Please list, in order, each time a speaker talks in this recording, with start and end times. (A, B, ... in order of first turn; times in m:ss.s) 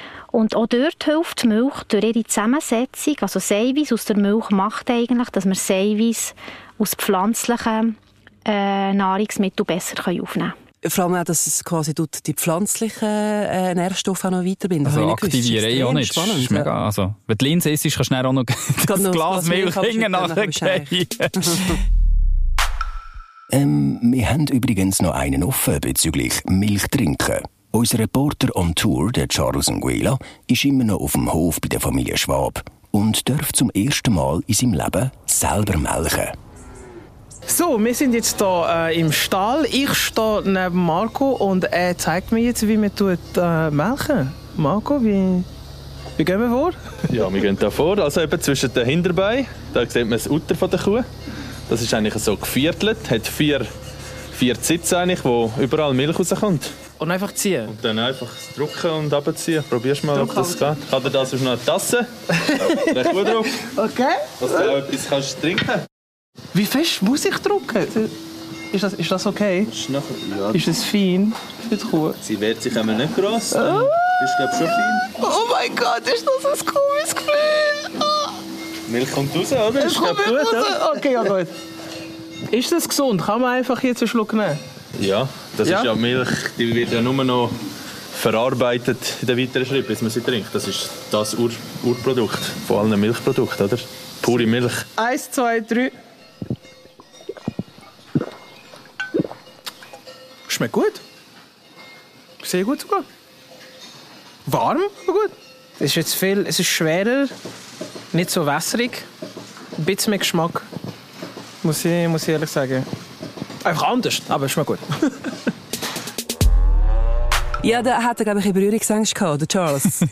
0:00.3-0:08.0 A
0:08.5-0:10.5 A
0:10.8-0:16.7 B
0:14.8-0:21.8 C
0:18.8-0:21.6 B
0:23.5-0:36.4 D
0:37.5-0:45.5 E
0:46.2-0:46.8 E
0:47.1-0:51.0 F
0:51.7-0:53.7 F
0:54.3-0:56.7 F
0:57.0-0:57.7 E
0:57.7-1:02.0 F
1:00.1-1:00.7 E
1:02.4-1:03.1 E
1:02.7-1:03.6 F
1:03.7-1:04.7 E
1:04.4-1:05.8 F
1:06.5-1:08.1 E
1:08.7-1:09.7 E
1:09.6-1:10.6 F
1:10.5-1:12.2 E
1:12.2-1:15.1 F
1:13.5-1:14.3 E
1:15.2-1:18.3 E
1:18.9-1:20.8 F
1:19.8-1:21.5 E
1:22.5-1:24.6 E
1:25.0-1:27.5 F
1:25.6-1:25.9 E
1:28.1-1:34.9 F
1:35.0-1:35.9 E
1:40.5-1:41.0 E
1:42.4-1:43.0 E
1:44.5-1:47.3 E
1:48.1-1:49.0 E
1:49.8-1:50.7 E
1:51.6-1:52.9 E
1:53.6-1:55.2 E
1:57.6-2:00.0 B